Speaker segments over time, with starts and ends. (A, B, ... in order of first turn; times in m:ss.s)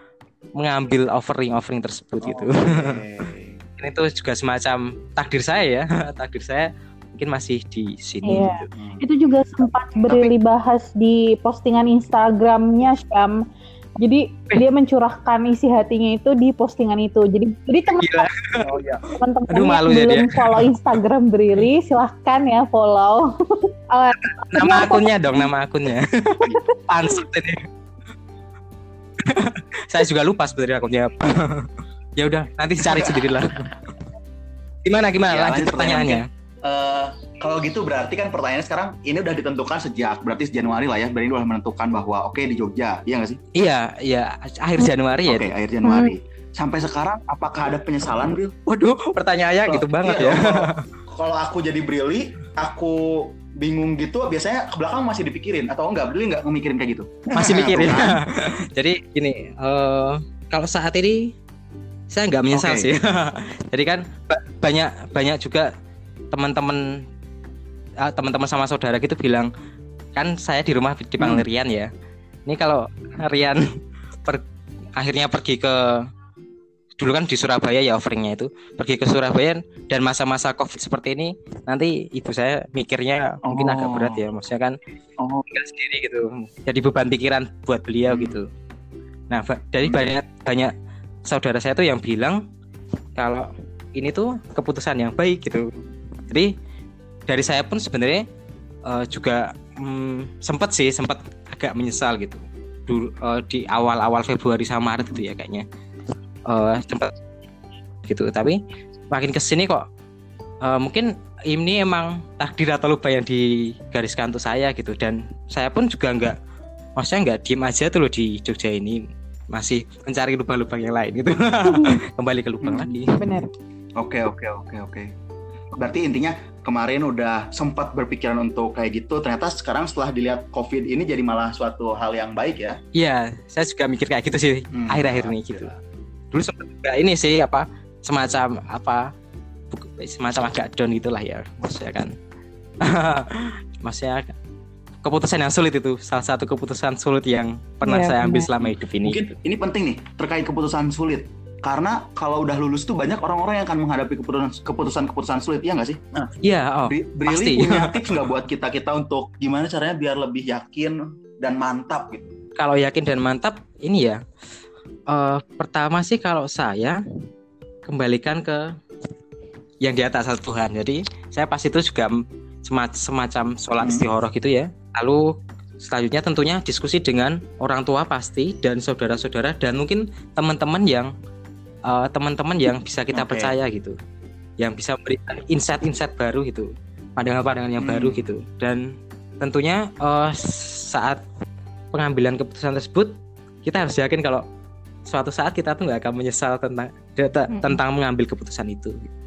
0:00.6-0:03.0 A
0:02.2-0:03.6 B
0:03.8-0:08.7 A
0:08.2-0:13.4 C
0:08.3-0:09.0 B
0:10.0-0:10.3 B
0:14.0-0:18.3 C
0:18.0-0:18.6 A
0:18.6-0:19.0 B
0:19.2-0:25.5 C
0:19.5-0:20.7 A
0:24.5-0:27.6 A
0:29.2-0:33.8 A
0:32.8-0:33.4 B
0:34.8-0:36.2 A
0:35.3-0:43.4 B
0:43.6-0:45.5 A
0:45.2-0:48.5 B
0:45.8-0:46.1 C
0:48.7-0:50.8 A
0:49.7-0:58.2 B
0:57.3-1:01.3 A
1:02.1-1:05.7 A
1:02.5-1:02.9 B
1:06.3-1:06.9 A
1:08.0-1:09.5 A
1:10.2-1:11.9 A
1:11.2-1:11.4 B
1:12.5-1:13.6 A
1:15.0-1:16.0 A
1:17.0-1:24.8 A
1:23.5-1:24.2 B
1:25.2-1:25.4 B
1:25.5-1:28.5 A
1:28.1-1:28.4 B
1:29.3-1:30.7 A
1:31.3-1:32.4 A
1:33.2-1:35.7 A
1:37.3-1:38.2 A
1:38.8-1:45.6 A
1:46.5-1:47.1 A
1:48.1-1:48.6 A
1:49.1-1:49.8 A
1:50.6-1:56.4 A
1:57.0-2:03.2 A
2:01.6-2:02.0 C
2:02.6-2:02.9 B
2:03.2-2:03.5 C
2:04.0-2:05.1 B
2:05.8-2:12.8 B
2:13.0-2:15.7 A
2:14.7-2:15.8 B
2:16.3-2:19.1 A
2:19.7-2:22.1 A
2:22.8-2:24.3 A
2:25.0-2:29.2 A
2:27.8-2:28.5 C
2:28.6-2:36.3 B
2:36.4-2:37.9 A
2:36.9-2:42.3 B
2:42.6-2:44.2 A
2:45.1-2:47.0 A
2:47.9-2:48.6 A
2:49.8-3:01.1 A
2:53.8-2:54.1 B
3:01.9-3:04.0 A
3:03.1-3:03.6 B
3:04.6-3:08.8 A
3:07.8-3:08.3 B
3:09.4-3:11.2 A
3:11.9-3:14.4 A
3:15.1-3:19.1 A
3:17.5-3:17.8 C